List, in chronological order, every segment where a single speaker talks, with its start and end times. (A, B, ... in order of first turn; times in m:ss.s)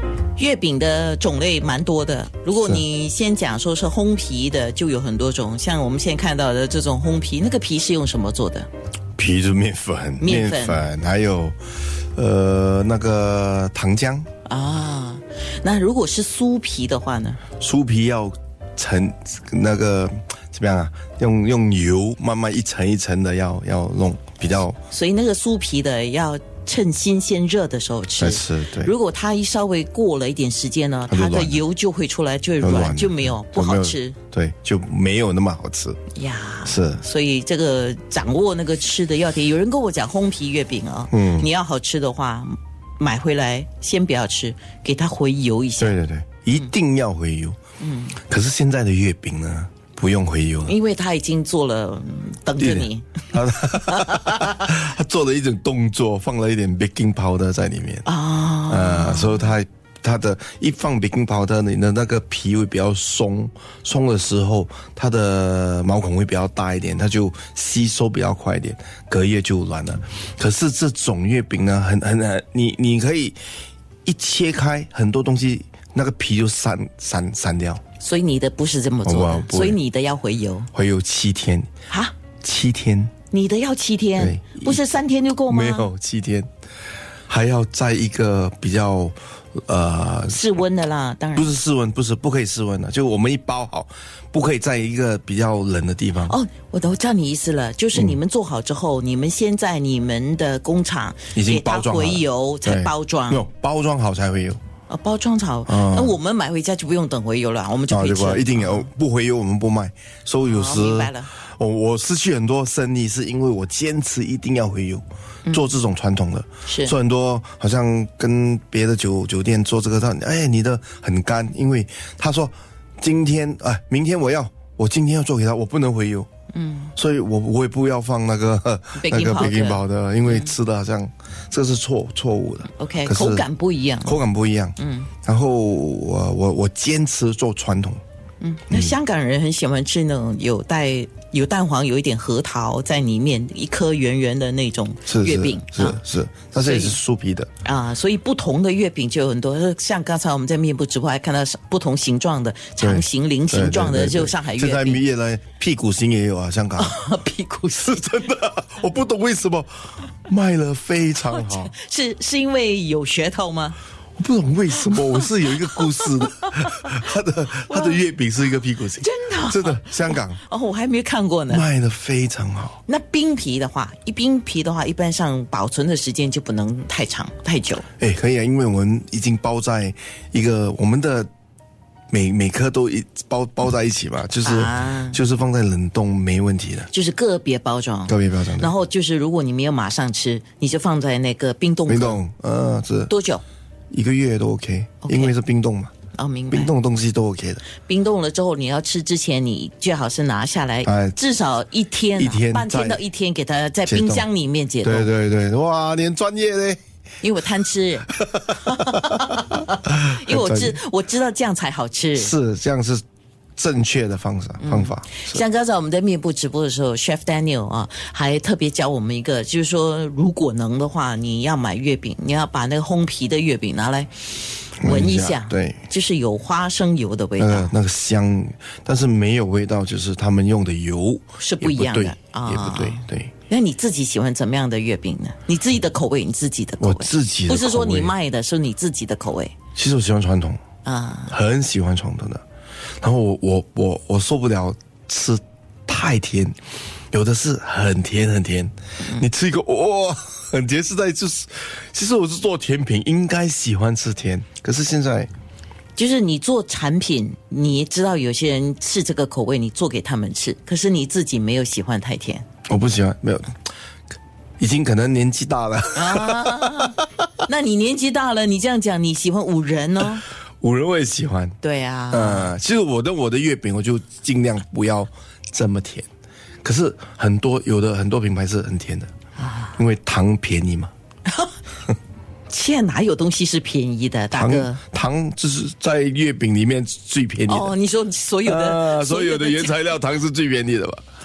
0:00.4-0:08.7 A
0:02.6-0:02.8 B
0:09.2-0:11.6 B
0:10.2-0:10.8 A
0:12.1-0:14.3 B
0:14.4-0:17.4 A
0:17.6-0:24.8 B
0:24.9-0:34.2 A
0:28.2-0:28.9 B
0:31.1-0:31.6 B
0:32.6-0:36.0 B
0:36.1-0:46.0 A
0:36.6-0:37.0 B
0:41.1-0:41.5 B
0:45.8-0:47.6 B
0:47.8-0:48.2 A
0:48.2-0:50.7 B
0:50.6-0:53.2 A
0:52.6-0:58.0 B
0:53.9-0:54.5 A
0:58.0-0:59.5 A
0:58.7-1:13.4 B
1:14.0-1:17.8 B
1:18.0-1:20.7 A
1:19.0-1:19.8 B
1:20.7-1:21.7 B
1:21.9-1:22.1 A
1:22.4-1:23.1 B
1:23.3-1:25.9 A
1:24.2-1:24.8 B
1:25.4-1:26.5 B
1:27.3-1:30.5 B
1:30.3-1:31.5 A
1:31.3-1:36.4 B
1:36.2-1:43.4 A
1:41.3-1:44.6 B
1:44.9-1:48.8 A
1:45.7-1:46.2 B
1:47.9-2:06.3 B
1:50.4-1:51.3 A
1:56.6-1:56.9 A
2:06.5-2:06.9 A
2:07.0-2:13.5 B
2:08.9-2:10.5 A
2:12.7-2:14.2 A
2:14.0-2:18.0 B
2:14.8-2:15.1 A
2:18.4-2:26.0 A
2:18.7-2:18.9 B
2:25.0-2:27.5 B
2:26.6-2:27.0 A
2:27.6-2:35.0 A
2:32.8-2:37.0 B
2:36.8-2:38.0 A
2:37.8-2:39.7 B
2:40.3-2:41.7 B
2:41.3-2:43.8 A
2:44.2-2:50.4 B
2:44.8-2:47.0 A
2:47.6-2:48.0 A
2:49.0-2:51.6 A
2:51.5-2:52.8 B
2:52.9-2:57.8 A
2:58.0-3:01.3 B
3:02.1-3:06.9 B
3:04.4-3:05.2 A
3:06.9-3:12.2 A
3:08.1-3:08.7 B
3:11.9-3:13.1 B
3:13.1-3:13.4 A
3:13.9-3:15.9 B
3:15.0-3:15.3 A
3:16.1-3:16.7 A
3:16.5-3:17.6 B
3:17.7-3:25.1 A
3:20.8-3:21.2 B
3:22.1-3:23.0 B
3:23.9-3:24.3 B
3:24.8-3:26.8 B
3:27.2-3:32.3 A
3:28.3-3:30.8 B
3:32.2-3:33.0 B
3:33.6-3:35.4 B
3:34.6-3:47.7 A
3:44.8-3:45.8 B
3:47.4-3:53.3 B
3:51.4-3:59.5 A
3:56.8-3:58.1 B
3:59.7-4:00.6 B
4:00.8-4:01.4 A
4:01.3-4:02.4 B
4:03.0-4:06.6 B
4:07.1-4:15.3 B
4:16.0-4:22.4 A
4:22.7-4:23.6 B
4:24.6-4:27.0 B
4:25.9-4:30.2 A
4:30.6-4:31.6 B
4:31.6-4:32.5 A
4:32.1-4:36.1 B
4:36.6-4:39.1 B
4:39.4-4:39.8 A
4:39.8-4:40.9 B
4:42.5-4:44.8 A
4:44.3-4:47.7 B
4:47.5-4:49.8 A
4:48.4-4:51.0 B